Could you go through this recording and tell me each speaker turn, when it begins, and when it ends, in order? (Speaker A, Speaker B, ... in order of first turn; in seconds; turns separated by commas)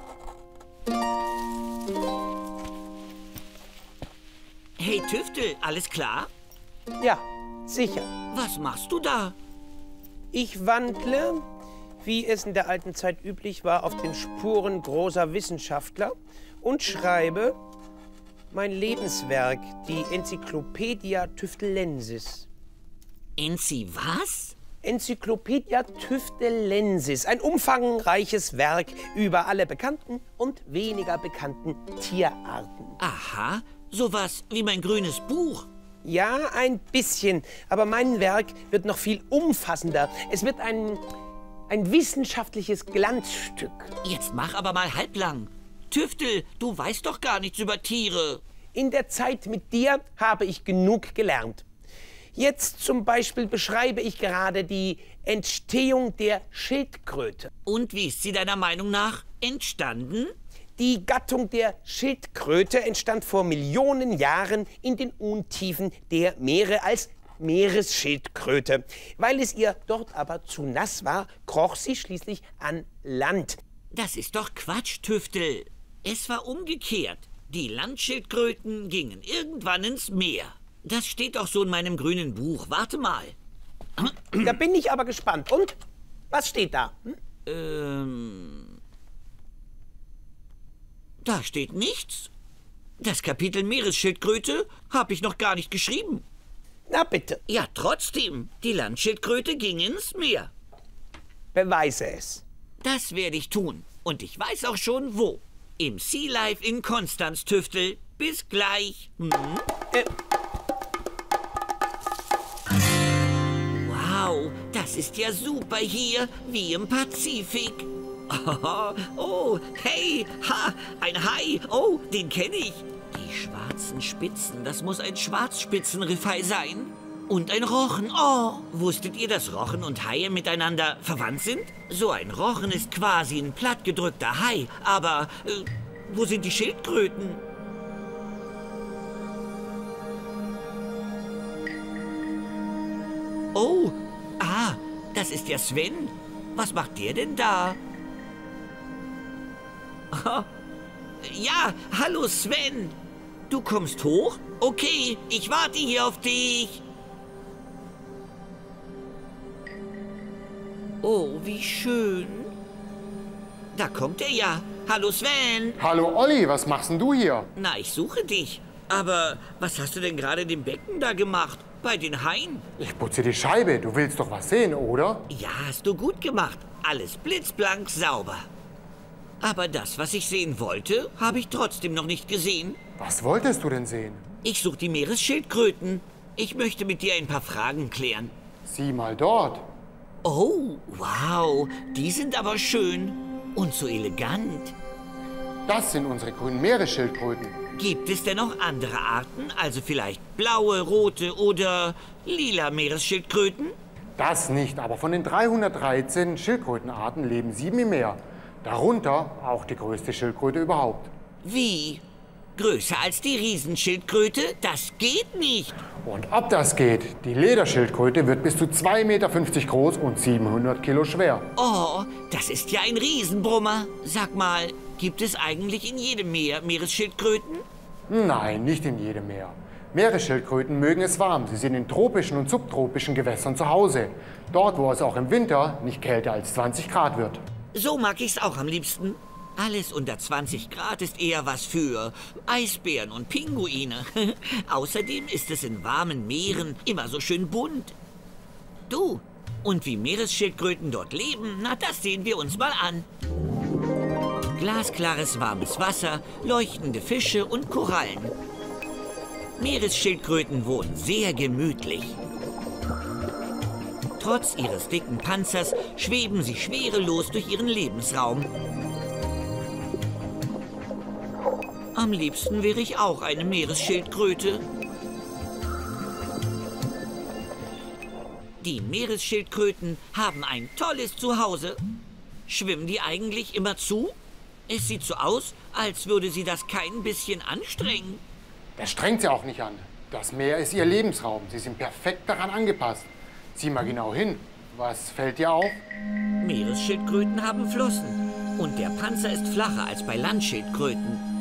Speaker A: 4.8-6.3, Speaker B: 7.0-8.1, Speaker A: 8.3-9.4, Speaker B: 10.3-11.4, Speaker B: 12.0-17.6, Speaker B: 18.5-22.5, Speaker A: 23.4-24.6, Speaker B: 24.8-33.0, Speaker A: 33.0-35.7, Speaker B: 36.0-41.0, Speaker B: 41.7-43.9, Speaker A: 44.0-48.4, Speaker B: 48.8-51.6, Speaker B: 52.4-57.5, Speaker A: 57.6-60.4, Speaker B: 60.8-73.6, Speaker A: 73.9-83.3, Speaker A: 84.0-84.6, Speaker B: 84.4-85.8, Speaker B: 86.3-87.2, Speaker A: 87.5-88.7, Speaker A: 91.2-92.3, Speaker A: 93.0-96.2, Speaker B: 96.9-97.4, Speaker A: 97.5-100.5, Speaker B: 101.5-102.4, Speaker A: 102.8-109.7, Speaker A: 113.7-137.4, Speaker A: 143.5-147.8, Speaker A: 150.1-150.5, Speaker A: 151.2-153.0, Speaker A: 153.5-156.8, Speaker A: 161.0-162.5, Speaker A: 163.7-165.8, Speaker C: 165.8-167.5, Speaker A: 167.6-172.7, Speaker C: 172.8-175.3, Speaker A: 175.3-178.5, Speaker A: 179.4-182.8, Speaker C: 183.0-184.2, Speaker A: 184.4-188.3, Speaker C: 188.7-189.7, Speaker A: 190.2-194.8, Speaker C: 195.7-197.6, Speaker A: 197.8-203.8, Speaker C: 204.2-211.1, Speaker A: 211.4-212.0, Speaker A: 212.6-215.8, Speaker C: 216.0-221.5, Speaker A: 221.6-227.7, Speaker C: 228.1-237.4, Speaker A: 237.7-248.0, Speaker A: 248.9-253.1, Speaker A: 254.5-258.4, Speaker A: 259.6-262.2, Speaker A: 264.2-268.5, Speaker A: 271.9-274.6, Speaker A: 278.6-281.8, Speaker A: 282.5-284.2, Speaker A: 284.7-288.2, Speaker C: 288.8-295.8, Speaker A: 296.4-301.2